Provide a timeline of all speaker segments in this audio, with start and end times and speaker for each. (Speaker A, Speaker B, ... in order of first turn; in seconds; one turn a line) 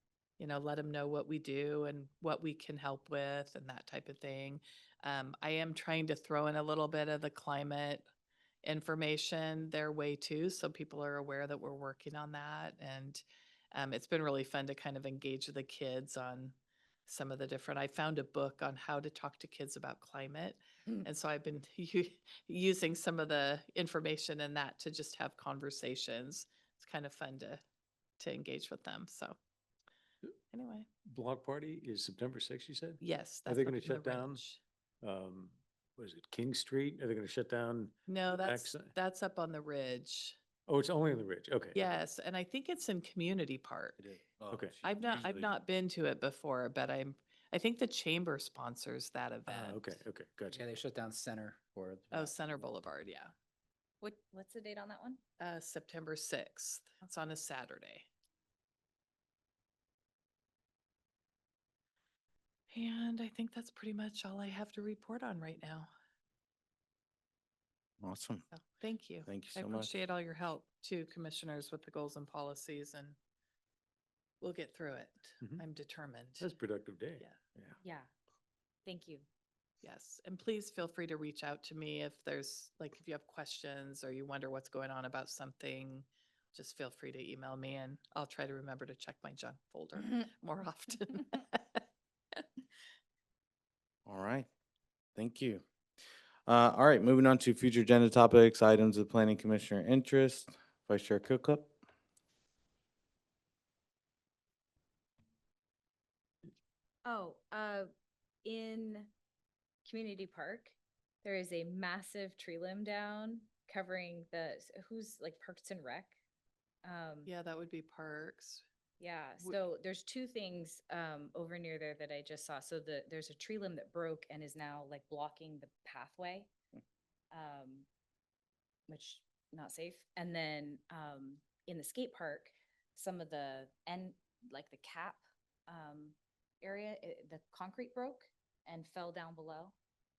Speaker A: 0.4-8.1
Speaker A: 8.6-16.6
Speaker A: 17.1-27.6
Speaker A: 28.2-29.4
Speaker A: 30.5-30.9
Speaker B: 31.1-34.4
Speaker A: 33.0-34.6
Speaker B: 35.0-38.9
Speaker A: 38.1-40.4
Speaker B: 40.7-41.9
Speaker A: 41.8-44.0
Speaker C: 44.0-45.5
Speaker A: 44.8-50.0
Speaker B: 49.5-50.6
Speaker D: 50.5-52.6
Speaker A: 52.1-53.3
Speaker E: 54.0-55.2
Speaker A: 55.4-58.1
Speaker A: 62.7-65.9
Speaker C: 68.0-68.4
Speaker A: 68.5-73.2
Speaker C: 69.2-69.9
Speaker A: 74.4-76.5
Speaker B: 76.4-77.2
Speaker E: 77.8-78.1
Speaker E: 78.8-79.3
Speaker A: 79.8-91.8
Speaker C: 94.0-94.5
Speaker C: 95.2-95.6
Speaker C: 96.5-101.7
Speaker E: 107.0-107.9
Speaker E: 108.4-109.1
Speaker E: 109.8-116.2
Speaker E: 116.8-117.3
Speaker A: 117.2-118.6
Speaker E: 119.0-126.5
Speaker E: 127.3-127.9
Speaker E: 128.9-139.8